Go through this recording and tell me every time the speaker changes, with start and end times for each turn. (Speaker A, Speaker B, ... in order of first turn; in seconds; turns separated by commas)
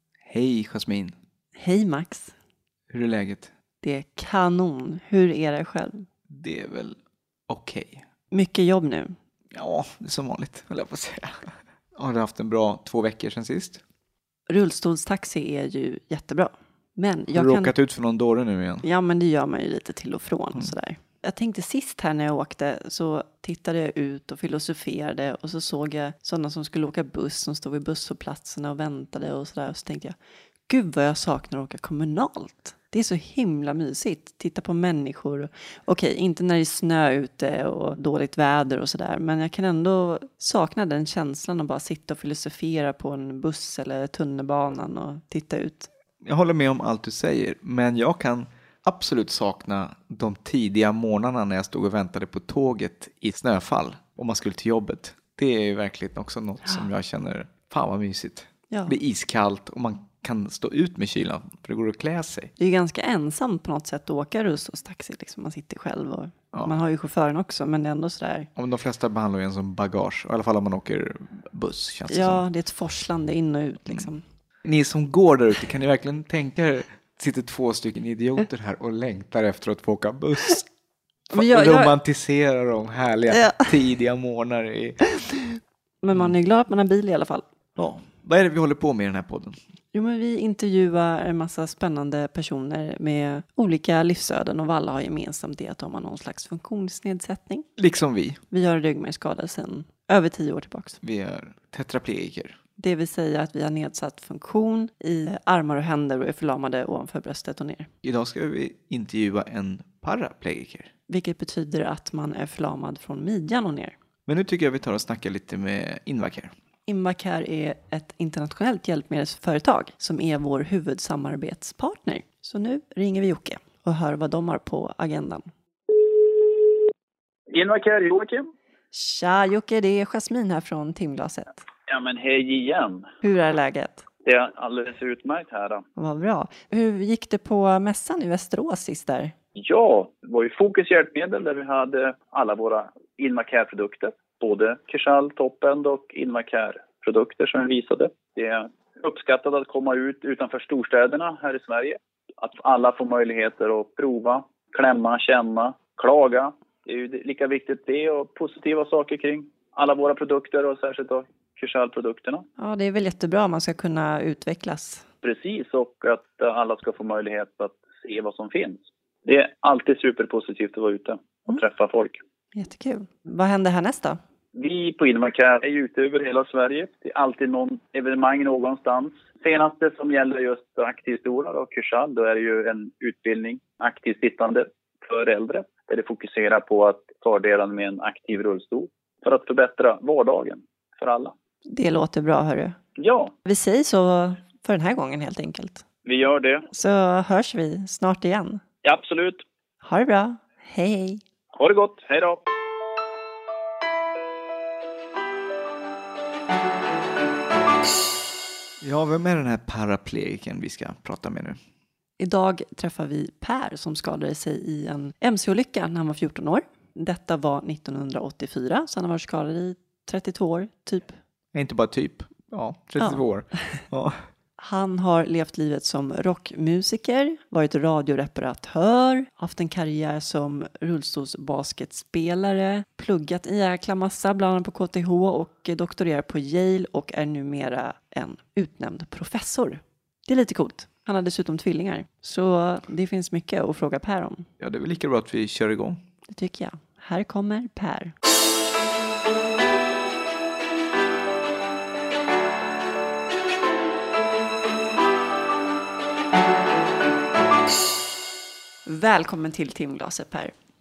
Speaker A: 0.2-1.1, Speaker B: 1.6-2.3, Speaker A: 2.9-3.5, Speaker B: 3.8-6.1, Speaker A: 6.3-8.0, Speaker B: 8.3-9.2, Speaker A: 9.5-13.8, Speaker B: 14.5-17.7, Speaker A: 17.3-18.8, Speaker B: 18.8-30.1, Speaker B: 30.7-45.9, Speaker A: 46.2-62.5, Speaker B: 58.7-58.9, Speaker B: 62.6-68.5, Speaker A: 68.5-72.4, Speaker B: 72.1-74.2, Speaker A: 74.6-80.7, Speaker B: 81.3-81.9, Speaker A: 81.3-85.6, Speaker B: 83.3-83.8, Speaker B: 86.0-87.5, Speaker A: 87.8-89.6, Speaker B: 89.9-97.7, Speaker A: 97.8-98.4, Speaker B: 98.5-101.0, Speaker A: 101.0-102.6, Speaker B: 102.8-107.9, Speaker A: 108.0-110.9, Speaker B: 111.1-113.9, Speaker A: 114.2-116.5, Speaker B: 116.9-125.5, Speaker C: 126.0-126.8, Speaker C: 127.5-128.5, Speaker B: 128.9-131.6, Speaker C: 131.9-133.1, Speaker B: 133.2-134.1, Speaker C: 134.2-135.8, Speaker B: 135.9-139.3, Speaker C: 139.6-162.4, Speaker B: 162.6-165.0, Speaker C: 165.2-172.2, Speaker B: 172.5-174.2, Speaker C: 174.5-191.3, Speaker B: 191.7-192.8, Speaker C: 193.0-193.3, Speaker B: 193.4-195.8, Speaker C: 196.1-196.7, Speaker B: 196.7-198.6, Speaker C: 198.8-199.4, Speaker B: 199.8-201.2, Speaker C: 201.5-202.4, Speaker A: 208.8-211.6, Speaker B: 212.2-221.2, Speaker A: 221.5-224.2, Speaker B: 223.0-223.8, Speaker B: 224.6-244.5, Speaker A: 244.6-246.0, Speaker B: 246.3-248.1, Speaker B: 258.9-260.5